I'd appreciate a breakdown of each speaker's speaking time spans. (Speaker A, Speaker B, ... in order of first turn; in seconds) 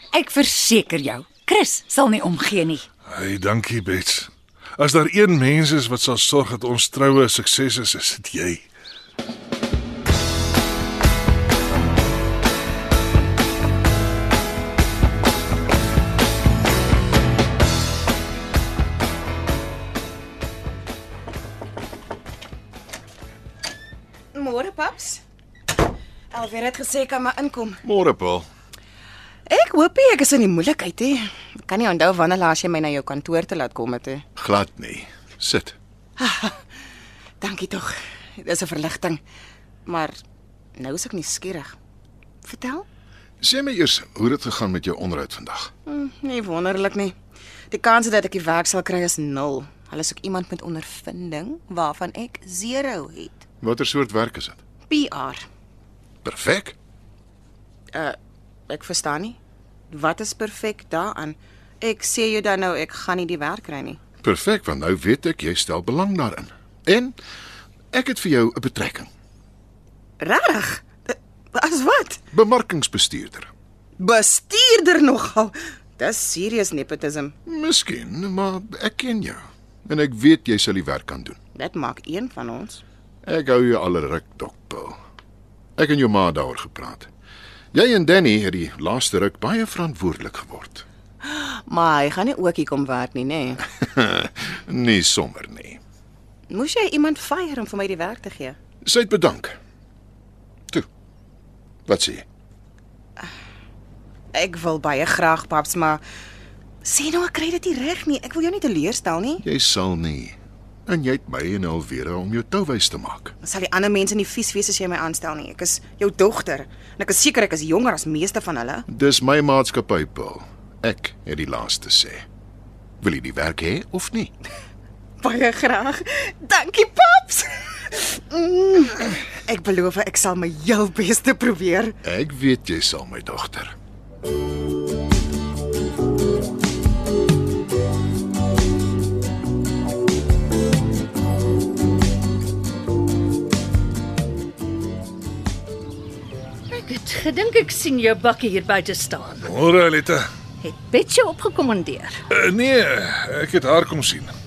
Speaker A: 0.1-2.9
Speaker B: 3.1-8.7, 149.4-150.3, 152.3-154.3
Speaker C: 24.3-25.2, 26.3-27.8, 29.5-34.2, 36.2-36.7, 37.4-39.2, 39.9-40.2, 40.8-41.8, 42.4-42.9, 45.9-47.2, 47.7-53.4, 54.9-55.5, 58.7-59.4, 59.9-64.0, 70.2-72.2, 74.0-77.3, 81.5-82.8, 91.2-93.6, 96.5-98.6, 104.3-106.0, 106.8-109.4, 113.4-118.8, 125.2-132.0
Speaker D: 27.8-28.5, 34.4-35.8, 43.4-45.7, 53.6-54.6, 56.2-56.8, 64.2-67.2, 67.9-69.1, 72.3-73.5, 77.5-81.4, 83.2-85.0, 85.8-87.1, 87.7-90.8, 93.8-95.8, 98.8-99.6, 101.9-102.2, 109.4-113.3, 118.9-122.3, 123.0-124.3, 132.0-133.7
Speaker E: 146.7-149.5, 150.6-152.2